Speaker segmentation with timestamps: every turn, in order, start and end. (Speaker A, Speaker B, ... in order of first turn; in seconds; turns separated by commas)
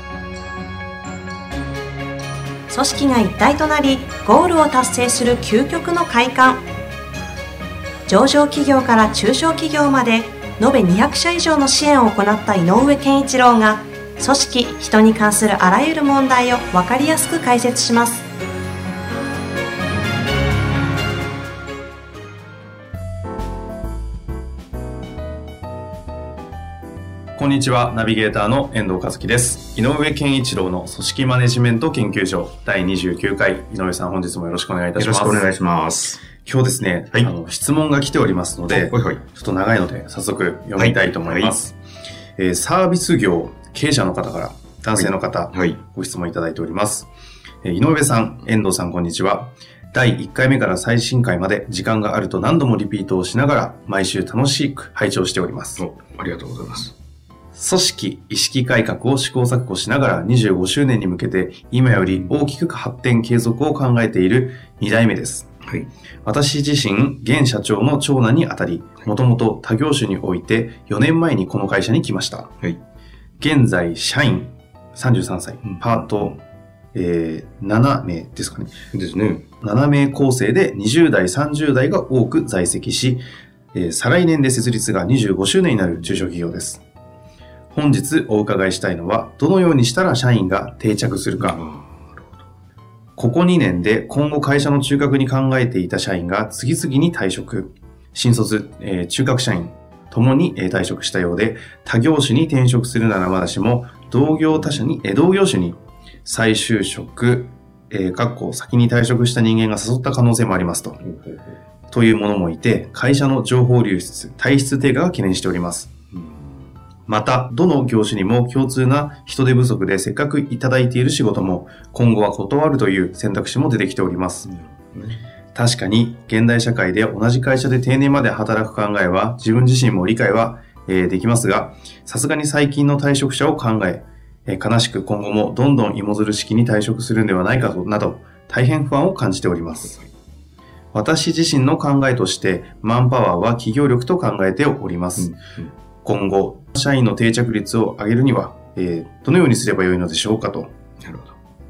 Speaker A: 2.7-6.6, Speaker A: 8.1-18.2, Speaker B: 27.4-35.5, Speaker C: 35.0-36.2, Speaker B: 36.3-41.8, Speaker C: 38.7-39.2, Speaker C: 40.8-41.5, Speaker B: 42.4-47.1, Speaker C: 44.9-45.8, Speaker B: 47.6-55.8, Speaker C: 55.8-56.9, Speaker B: 57.5-65.5, Speaker C: 61.9-62.4, Speaker B: 66.2-72.5, Speaker B: 73.4-76.4, Speaker C: 75.6-76.4, Speaker B: 76.9-78.7, Speaker C: 78.9-79.4, Speaker B: 79.6-86.8, Speaker B: 87.7-91.6, Speaker C: 91.4-92.4, Speaker B: 93.2-111.0, Speaker B: 111.9-115.9, Speaker C: 116.1-116.6, Speaker B: 117.1-124.5, Speaker C: 124.5-125.2, Speaker B: 125.5-140.0, Speaker B: 140.9-145.3, Speaker C: 145.2-145.7, Speaker B: 146.0-150.7, Speaker C: 151.0-151.3